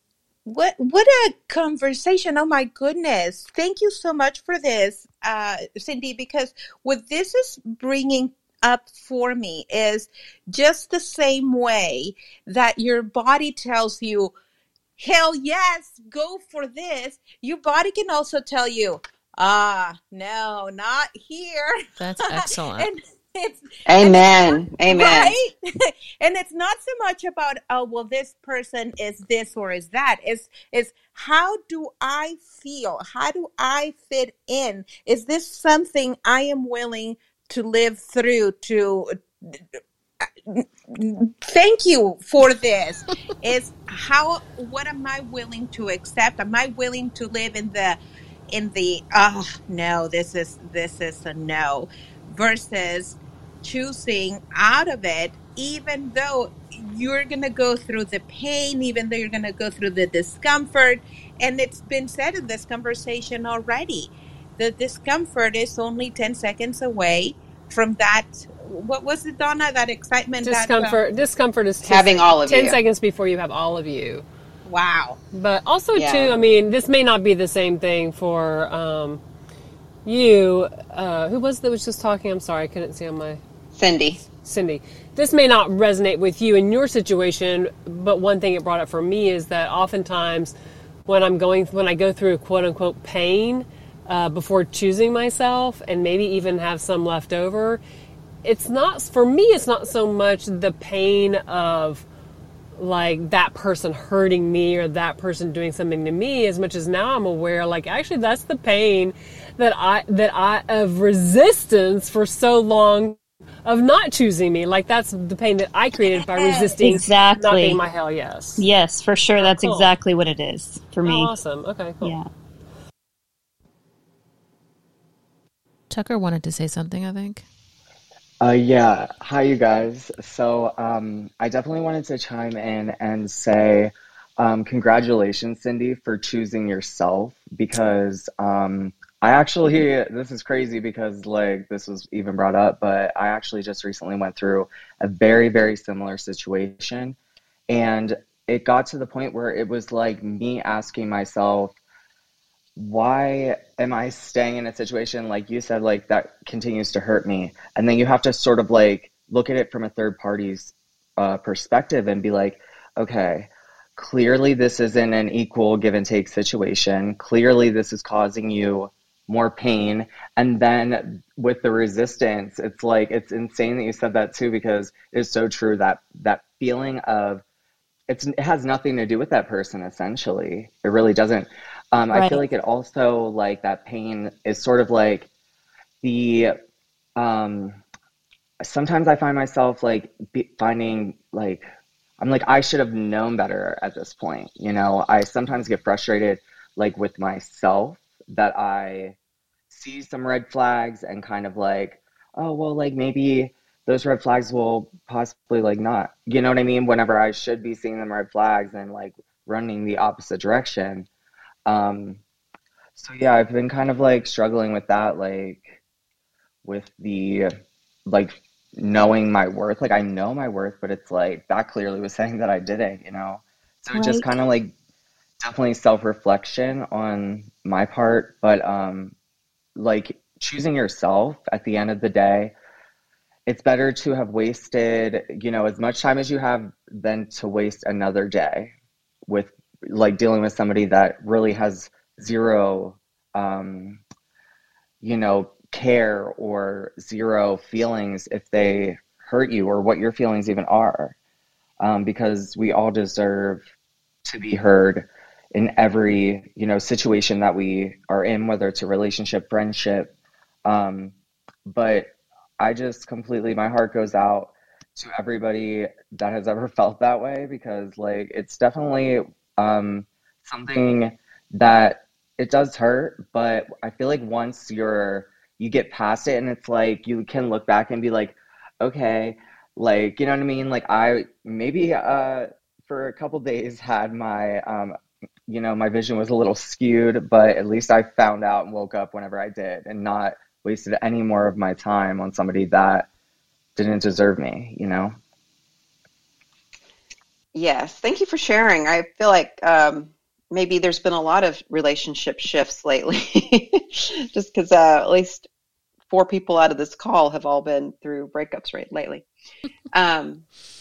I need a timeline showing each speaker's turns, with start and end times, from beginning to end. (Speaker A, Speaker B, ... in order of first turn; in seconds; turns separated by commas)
Speaker A: 0.5-14.3, Speaker A: 15.0-21.7, Speaker B: 22.0-22.9, Speaker A: 22.3-39.5, Speaker C: 23.9-25.3, Speaker A: 40.5-48.0, Speaker A: 48.5-71.0, Speaker D: 70.4-74.2, Speaker C: 71.8-72.8, Speaker A: 74.7-75.2, Speaker D: 75.3-79.2, Speaker C: 75.9-76.4, Speaker D: 80.0-83.4, Speaker C: 83.7-84.2, Speaker D: 84.4-90.5, Speaker D: 91.0-97.8, Speaker D: 98.4-102.0, Speaker D: 102.8-118.7, Speaker A: 116.3-116.7, Speaker E: 116.8-117.8, Speaker E: 118.6-121.3, Speaker D: 119.4-119.9, Speaker D: 121.0-122.2, Speaker E: 122.0-122.3, Speaker B: 125.9-127.5, Speaker F: 128.4-147.2, Speaker F: 147.7-151.7, Speaker F: 152.8-177.4, Speaker F: 178.1-185.3, Speaker E: 182.1-182.4, Speaker F: 186.0-186.5, Speaker F: 187.2-187.8, Speaker F: 188.6-191.6, Speaker F: 192.2-199.1, Speaker F: 199.7-211.1, Speaker F: 211.7-212.2, Speaker F: 212.9-215.8, Speaker F: 216.6-217.5, Speaker F: 218.1-224.7, Speaker F: 225.4-229.1, Speaker F: 229.8-232.5, Speaker F: 233.5-238.7, Speaker F: 239.3-244.0, Speaker F: 245.0-251.1, Speaker F: 251.8-253.6, Speaker F: 254.2-260.1, Speaker F: 260.6-261.1, Speaker F: 261.7-285.0, Speaker F: 285.5-293.1, Speaker F: 293.8-295.1, Speaker C: 297.5-305.5, Speaker C: 306.1-309.2, Speaker C: 309.9-310.4